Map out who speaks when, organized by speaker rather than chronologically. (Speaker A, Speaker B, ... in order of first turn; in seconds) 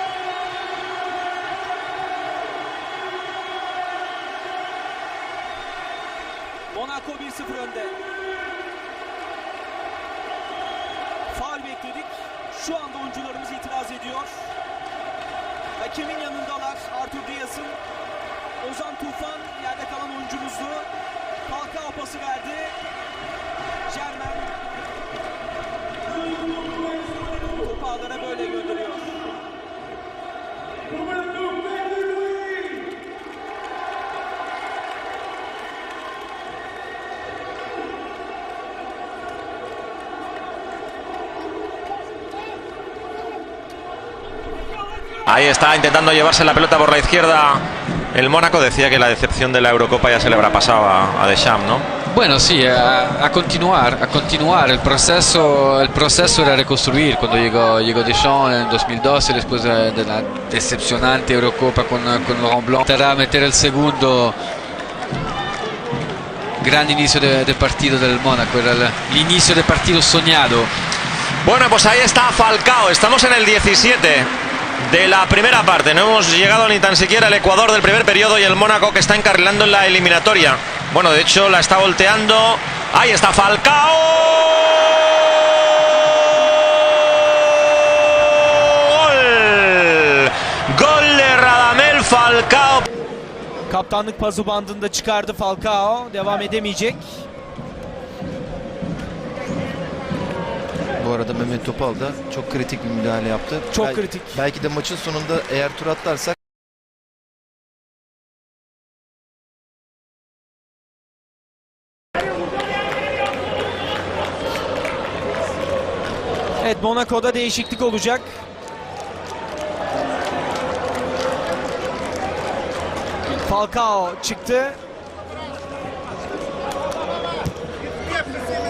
Speaker A: 6.7-8.0, 11.3-14.5, 15.8-17.8, 18.6-20.9, 21.5-22.8, 23.9-24.6, 27.3-29.1, 93.7-97.2, 103.7-104.4, 116.6-118.3, 123.4-124.8
Speaker B: 45.3-51.9, 71.4-74.3, 74.8-86.1, 86.7-92.9
Speaker C: 52.1-64.4, 66.6-70.7
Speaker D: 101.0-106.4